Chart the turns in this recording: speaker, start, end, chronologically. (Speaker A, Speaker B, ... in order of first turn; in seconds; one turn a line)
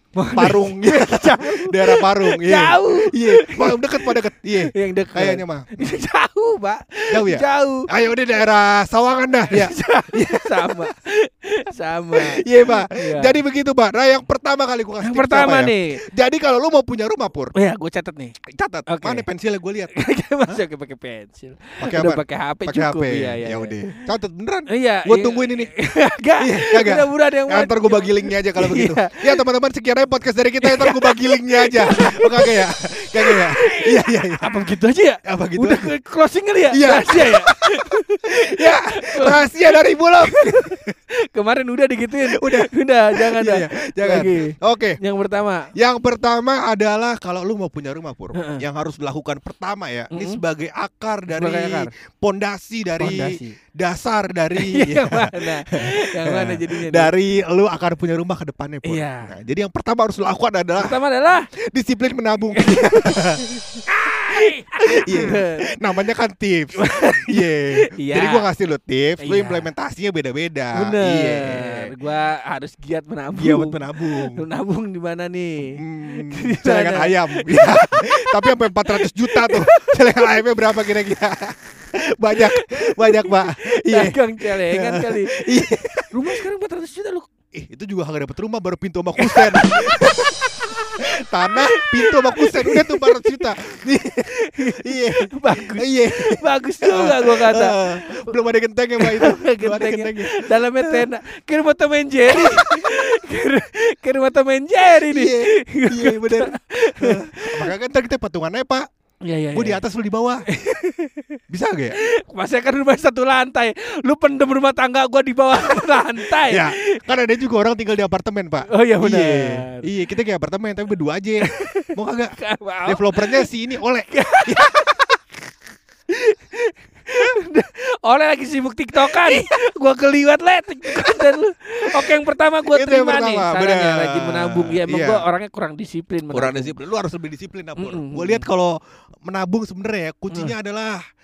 Speaker A: 0.2-7.9
Speaker B: 0.3-5.8
Speaker B: 7.1-10.9
Speaker A: 9.5-13.4
Speaker B: 12.2-17.5
Speaker A: 15.0-16.0
Speaker A: 17.5-18.4
Speaker B: 18.5-19.9
Speaker A: 18.9-19.3
Speaker A: 19.9-23.9
Speaker B: 21.8-25.7
Speaker A: 24.7-29.2
Speaker B: 26.4-34.7
Speaker A: 30.6-32.6
Speaker A: 33.2-39.7
Speaker B: 35.3-35.9
Speaker B: 36.7-40.9
Speaker A: 40.2-45.7
Speaker B: 42.2-45.0
Speaker B: 45.8-61.0
Speaker A: 48.3-48.6
Speaker A: 50.1-50.4
Speaker A: 51.3-51.9
Speaker A: 53.0-53.6
Speaker A: 54.6-57.1
Speaker A: 58.8-59.3
Speaker A: 60.8-61.5
Speaker B: 61.5-63.6
Speaker A: 62.6-63.2
Speaker A: 64.0-65.7
Speaker B: 64.3-71.9
Speaker A: 66.8-68.5
Speaker A: 69.2-69.7
Speaker A: 70.8-80.4
Speaker B: 73.3-74.5
Speaker B: 75.7-86.4
Speaker A: 82.4-87.3
Speaker B: 87.5-90.5
Speaker A: 89.2-91.0
Speaker B: 91.1-101.1
Speaker A: 91.7-93.5
Speaker A: 94.3-98.1
Speaker A: 99.0-107.7
Speaker B: 102.3-102.9
Speaker B: 105.0-108.9
Speaker A: 109.2-109.8
Speaker B: 109.5-110.5
Speaker A: 110.5-111.4
Speaker B: 111.5-112.0
Speaker A: 112.0-117.0
Speaker B: 116.2-125.1
Speaker A: 118.7-119.9
Speaker A: 121.5-123.5
Speaker A: 124.1-124.9
Speaker A: 126.1-136.8
Speaker B: 129.1-129.5
Speaker B: 130.8-131.3
Speaker B: 131.9-135.3
Speaker B: 136.3-141.0
Speaker A: 137.8-138.5